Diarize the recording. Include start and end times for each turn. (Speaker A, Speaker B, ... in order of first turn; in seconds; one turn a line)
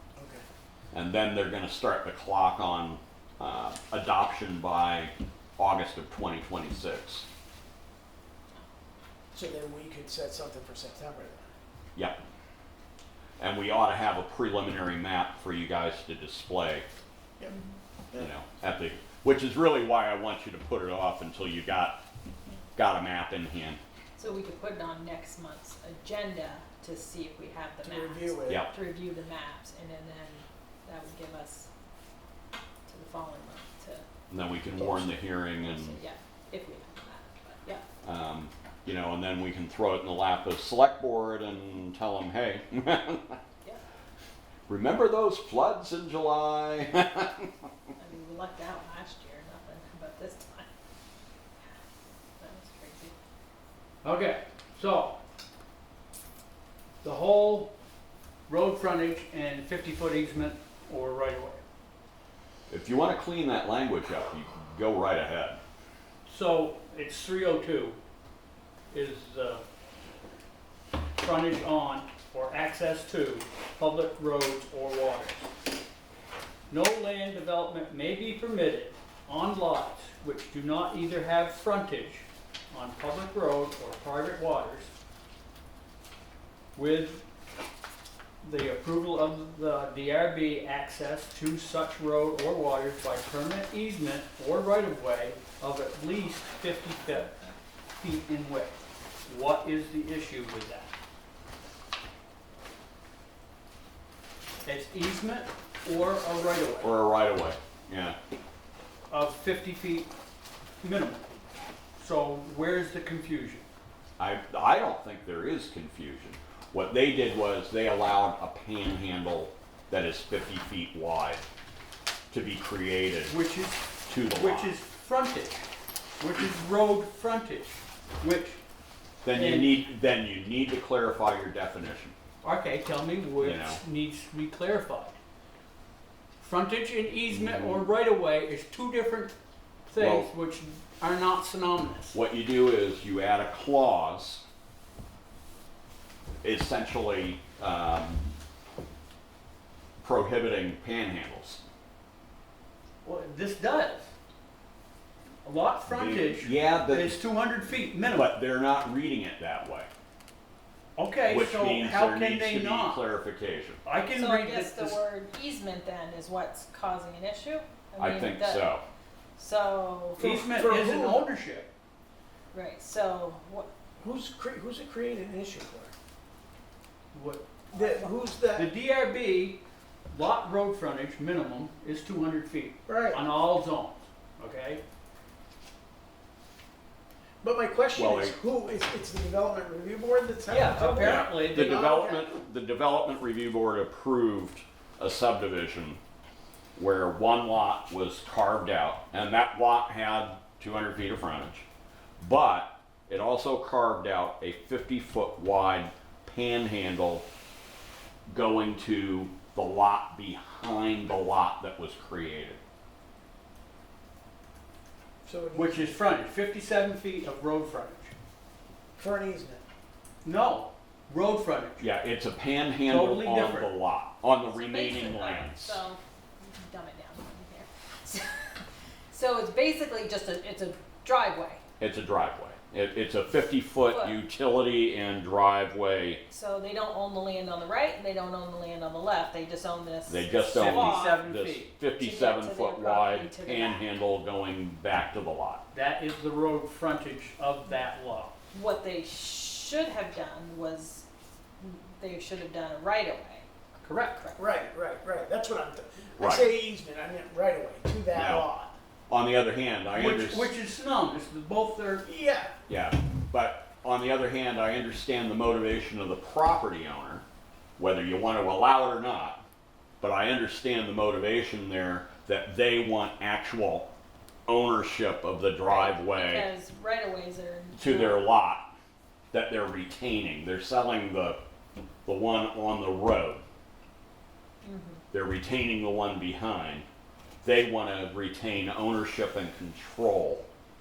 Speaker A: 0.1-0.4
Speaker B: 0.9-7.2
Speaker A: 9.3-11.4
Speaker B: 13.4-16.9
Speaker B: 18.2-22.0
Speaker B: 22.8-23.8
Speaker C: 24.2-31.7
Speaker A: 27.8-28.6
Speaker C: 32.9-34.0
Speaker B: 34.3-36.0
Speaker C: 34.7-37.8
Speaker B: 38.0-43.4
Speaker B: 44.7-47.5
Speaker C: 48.0-50.7
Speaker C: 52.4-53.1
Speaker D: 54.0-55.2
Speaker D: 57.0-57.7
Speaker D: 58.5-61.6
Speaker B: 62.7-65.6
Speaker D: 66.2-68.0
Speaker D: 68.9-69.6
Speaker D: 71.2-75.5
Speaker D: 76.7-84.9
Speaker D: 86.8-87.2
Speaker D: 88.4-97.3
Speaker D: 98.0-100.9
Speaker D: 104.6-106.9
Speaker B: 106.8-108.2
Speaker D: 109.1-110.1
Speaker D: 110.8-111.2
Speaker D: 112.0-113.6
Speaker B: 114.2-121.5
Speaker B: 122.3-123.3
Speaker D: 123.3-125.7
Speaker B: 124.1-124.8
Speaker D: 126.2-128.6
Speaker B: 129.2-132.1
Speaker D: 129.3-129.8
Speaker D: 132.4-135.2
Speaker B: 133.4-133.8
Speaker D: 136.4-139.3
Speaker B: 137.3-137.8
Speaker D: 139.9-142.2
Speaker B: 140.0-140.3
Speaker B: 142.1-144.4
Speaker B: 146.4-148.3
Speaker B: 150.0-151.6
Speaker D: 153.0-154.1
Speaker D: 155.4-158.3
Speaker B: 155.9-157.2
Speaker B: 158.1-159.9
Speaker D: 160.9-163.0
Speaker B: 161.3-163.8
Speaker D: 163.8-165.0
Speaker C: 164.1-168.6
Speaker B: 168.0-168.8
Speaker C: 169.4-170.2
Speaker D: 170.2-171.7
Speaker A: 170.2-171.2
Speaker C: 172.5-173.7
Speaker A: 174.0-175.9
Speaker D: 177.1-177.5
Speaker A: 177.7-178.7
Speaker D: 178.5-184.8
Speaker A: 182.9-183.2
Speaker A: 187.4-192.3
Speaker B: 187.9-188.3
Speaker D: 190.5-191.9
Speaker B: 190.9-196.0
Speaker B: 196.8-201.7
Speaker B: 202.2-207.2
Speaker B: 208.3-212.6
Speaker A: 215.2-215.9
Speaker D: 215.5-218.1
Speaker A: 219.0-219.6
Speaker D: 220.2-221.9
Speaker B: 221.8-225.8
Speaker D: 222.8-223.7
Speaker C: 224.4-231.6
Speaker B: 231.8-236.2
Speaker C: 233.8-234.2
Speaker C: 236.3-241.2
Speaker B: 240.1-245.6
Speaker D: 240.5-241.7
Speaker C: 242.0-243.9
Speaker D: 245.7-248.3
Speaker C: 248.5-251.1
Speaker C: 251.6-253.5
Speaker D: 253.8-254.2
Speaker C: 254.2-254.4
Speaker A: 254.4-258.8
Speaker B: 256.2-256.5
Speaker B: 258.1-258.4
Speaker B: 259.1-260.5
Speaker D: 259.9-262.0
Speaker A: 262.0-262.5
Speaker B: 262.7-267.2
Speaker B: 267.8-269.4
Speaker B: 270.0-273.9
Speaker B: 274.5-276.5
Speaker C: 275.6-278.2
Speaker B: 277.8-278.7
Speaker B: 279.3-281.4
Speaker B: 282.0-283.4
Speaker C: 284.6-285.0
Speaker B: 285.1-286.9
Speaker B: 287.4-290.5